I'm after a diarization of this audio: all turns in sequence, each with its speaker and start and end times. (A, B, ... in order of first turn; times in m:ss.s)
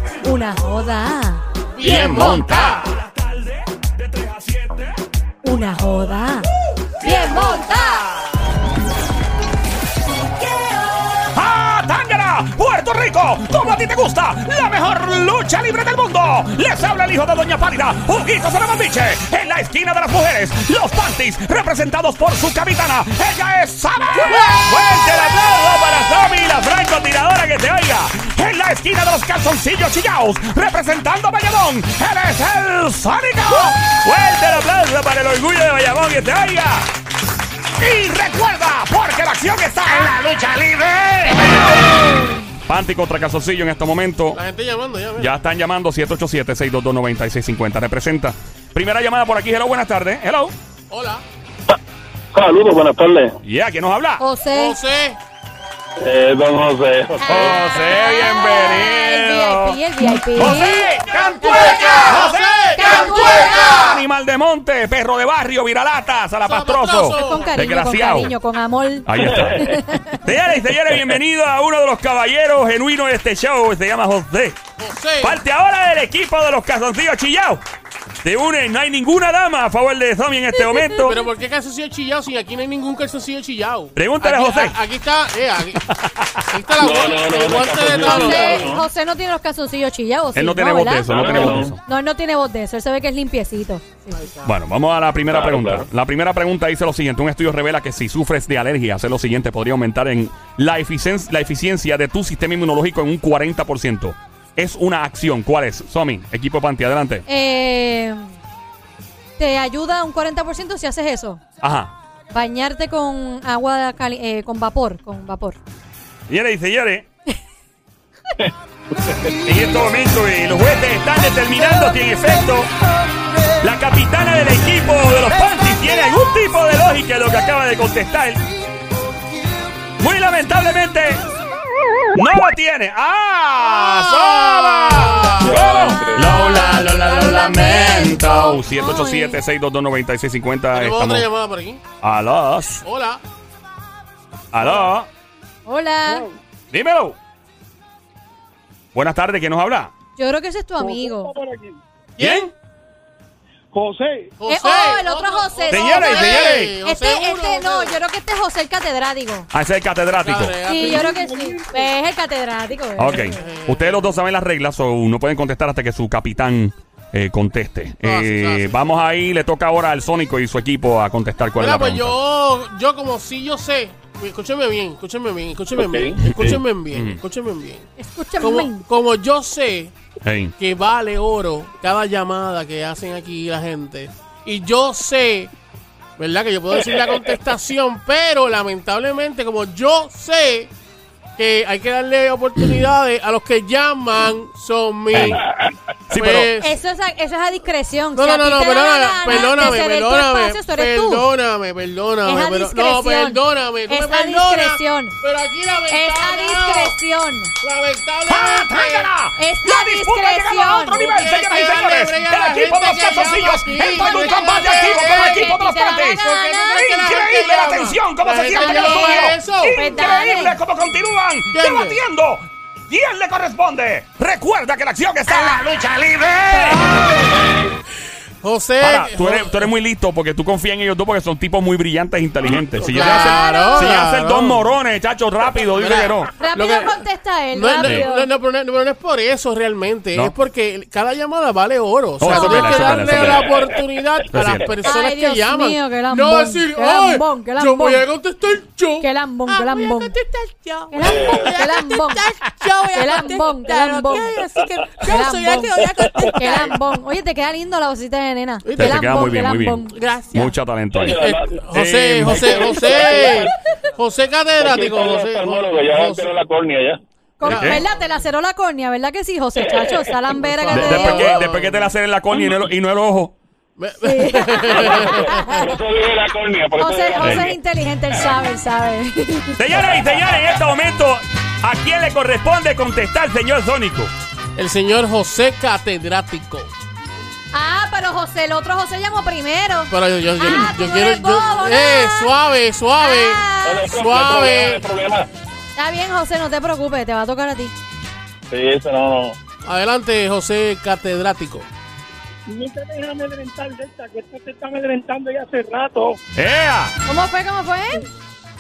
0:00.2-0:01.4 A
0:01.8-0:02.8 B
0:01.8-0:05.0 C
0:05.4-0:06.5 A
0:07.0-0:08.5 C
0:07.0-0:08.1 A
0:10.4-0:36.9 C
0:37.8-0:42.0 C
0:42.0-0:42.3 A
0:42.7-0:44.4 C
0:44.3-0:45.3 B
0:45.2-0:50.6 C
0:50.9-0:51.2 B
0:52.3-0:53.4 D
0:53.4-0:54.2 C
0:54.2-0:54.8 A
0:54.5-0:55.2 B
0:56.0-0:57.6 D
0:57.3-1:08.3 C
0:57.4-1:00.9 A
1:00.4-1:04.0 B
1:01.4-1:02.2 A
1:02.8-1:03.9 A
1:06.5-1:07.5 B
1:07.0-1:10.2 A
1:09.1-1:14.6 C
1:09.2-1:09.6 D
1:14.8-1:15.4 B
1:15.2-1:17.6 C
1:18.2-1:21.2 C
1:20.7-1:21.1 A
1:21.0-1:25.9 B
1:24.0-1:24.8 C
1:25.9-1:26.5 C
1:26.5-1:28.8 B
1:26.8-1:28.8 D
1:28.0-1:34.2 A
1:30.4-1:31.8 C
1:31.1-1:31.8 D
1:34.1-1:34.5 B
1:34.4-1:47.2 C
1:35.3-1:35.9 D
1:47.3-1:48.3 A
1:49.4-1:51.4 A
1:51.6-1:51.9 C
1:52.3-1:55.6 A
1:56.3-1:57.1 C
1:59.1-1:59.4 D
1:59.4-2:02.7 C
2:03.6-2:08.4 C
2:10.0-2:11.2 C
2:12.2-2:21.3 C
2:13.9-2:15.6 B
2:15.4-2:16.5 D
2:16.2-2:19.4 A
2:20.7-2:21.8 B
2:22.0-2:22.8 C
2:22.8-2:23.2 B
2:24.5-2:25.1 C
2:25.7-2:26.3 A
2:26.7-2:27.2 C
2:28.9-2:29.9 C
2:30.2-2:31.3 A
2:30.8-2:31.8 E
2:32.2-2:32.5 B
2:32.2-2:32.5 C
2:33.7-2:34.3 E
2:34.4-2:38.0 B
2:34.5-2:39.5 A
2:35.7-2:36.8 C
2:39.5-2:40.6 C
2:40.2-2:41.3 B
2:40.7-2:43.3 A
2:40.8-2:41.9 E
2:43.0-2:52.2 C
2:43.2-2:44.1 B
2:48.0-2:48.8 B
2:51.6-2:59.9 B
2:55.8-2:56.6 D
2:56.3-2:57.2 C
2:58.0-2:58.8 A
3:00.2-3:00.5 C
3:00.6-3:05.5 B
3:06.2-3:10.7 B
3:11.4-3:15.4 B
3:15.1-3:15.4 C
3:15.1-3:15.7 D
3:16.1-3:16.5 C
3:16.1-3:16.8 B
3:16.6-3:21.3 A
3:18.2-3:27.0 B
3:22.2-3:25.2 A
3:25.9-3:27.5 A
3:27.6-3:29.1 B
3:28.3-3:47.0 C
3:29.4-3:31.0 A
3:30.9-3:35.6 B
3:34.0-3:37.0 A
3:36.2-3:39.8 B
3:38.5-3:40.6 A
3:41.5-3:42.0 B
3:46.6-3:47.4 A
3:47.2-3:47.7 D
3:48.4-3:49.6 B
3:48.8-3:56.3 C
3:52.9-3:54.7 B
3:53.0-3:53.9 A
3:55.7-3:57.0 B
3:56.4-3:58.3 A
3:57.5-4:16.8 B
4:02.2-4:03.6 C
4:02.3-4:03.3 A
4:04.3-4:04.8 C
4:04.8-4:08.0 A
4:09.0-4:10.2 A
4:10.9-4:12.3 A
4:11.0-4:11.5 D
4:12.9-4:14.4 A
4:15.0-4:19.9 A
4:18.6-4:19.3 B
4:18.8-4:21.2 C
4:19.9-4:20.5 B
4:21.0-4:21.6 D
4:21.0-4:26.3 B
4:21.7-4:22.9 C
4:22.2-4:23.5 D
4:24.6-4:27.0 D
4:27.4-4:31.4 A
4:27.4-4:27.8 C
4:27.5-4:27.8 B
4:30.4-4:31.9 B
4:30.7-4:33.4 C
4:33.8-4:35.5 B
4:34.0-4:35.7 A
4:34.8-4:37.6 D
4:36.8-4:39.6 A
4:37.2-4:37.5 C
4:39.6-4:44.1 C
4:44.6-4:46.7 B
4:47.5-4:52.3 A
4:49.9-4:54.8 B
4:53.0-4:54.0 A
4:53.6-4:55.3 D
4:55.8-4:57.7 A
4:58.5-4:59.4 D
4:59.6-5:01.7 B
5:02.5-5:06.2 E
5:06.4-5:07.0 C
5:07.1-5:08.0 A